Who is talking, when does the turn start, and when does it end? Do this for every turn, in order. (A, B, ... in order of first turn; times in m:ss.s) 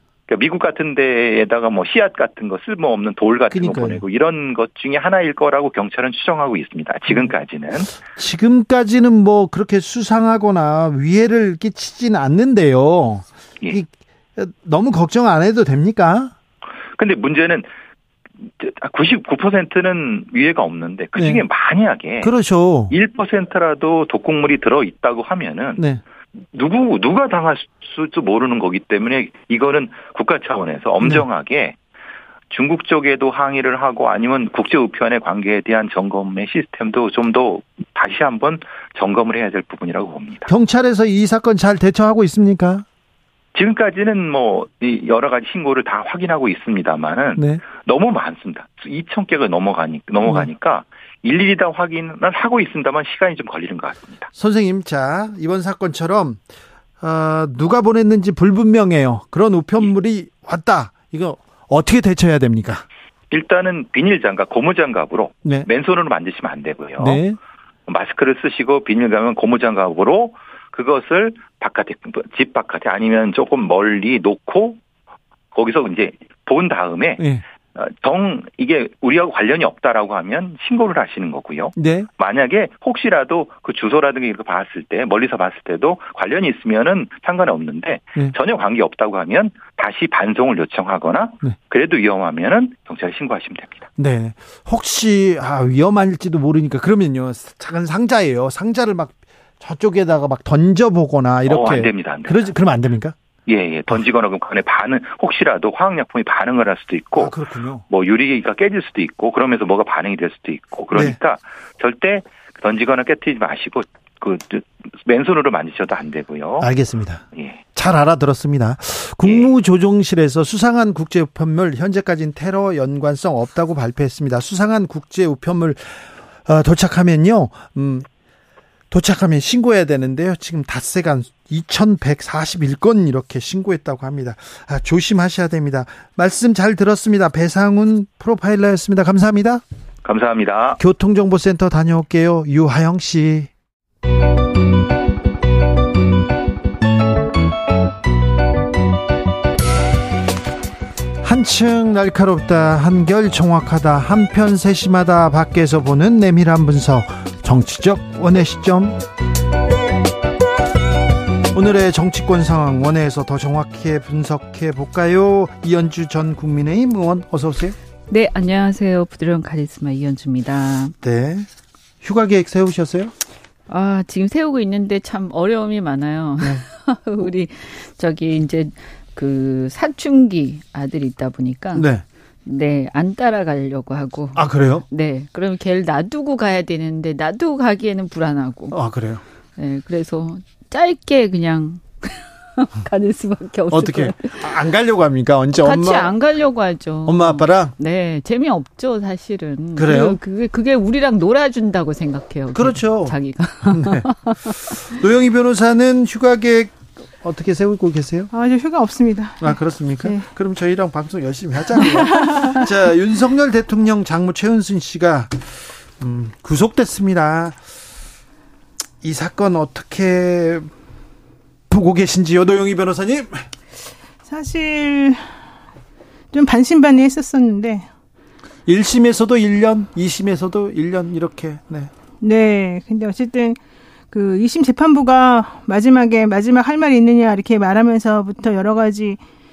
0:00.3-0:07.9 A
0:03.5-0:04.0 B
0:08.0-0:16.3 B
0:17.0-0:17.7 A
0:18.6-0:22.3 A
0:21.2-0:21.4 B
0:22.2-0:22.9 B
0:22.9-0:25.8 A
0:25.8-0:26.0 B
0:26.5-0:31.8 A
0:32.5-0:40.5 A
0:40.5-0:42.8 B
0:43.5-0:54.3 A
0:47.4-0:47.6 B
0:54.3-0:56.4 B
0:57.0-1:02.8 B
1:03.3-1:07.2 A
1:07.0-1:07.4 B
1:07.9-1:14.8 A
1:15.5-1:17.2 A
1:17.8-1:33.9 A
1:21.8-1:22.1 B
1:34.0-1:43.1 B
1:41.4-1:42.5 A
1:43.5-1:47.3 A
1:47.1-1:47.8 B
1:47.9-1:56.7 A
1:50.9-1:51.2 B
1:56.6-1:57.2 B
1:57.7-2:08.1 B
1:59.2-1:59.5 A
2:08.9-2:19.6 B
2:20.0-2:20.8 A
2:20.8-2:23.5 B
2:31.2-2:39.0 B
2:41.5-2:47.8 B
2:48.1-2:50.9 C
2:51.0-2:51.5 B
2:52.0-2:53.1 B
2:53.7-3:01.9 C
3:01.7-3:02.0 B
3:02.4-3:08.8 C
3:04.3-3:04.8 B
3:08.7-3:09.2 B
3:09.6-3:14.6 C
3:13.7-3:16.1 B
3:15.6-3:24.8 C
3:17.0-3:17.7 B
3:19.8-3:20.2 B
3:22.5-3:24.1 B
3:24.7-3:28.3 B
3:28.3-3:30.2 D
3:29.4-3:37.6 B
3:31.8-3:32.3 D
3:39.0-3:40.7 B
3:41.7-3:43.5 B
3:44.2-3:45.2 D
3:46.3-3:47.9 D
3:48.6-3:51.9 B
3:52.2-3:53.6 D
3:54.1-3:59.2 D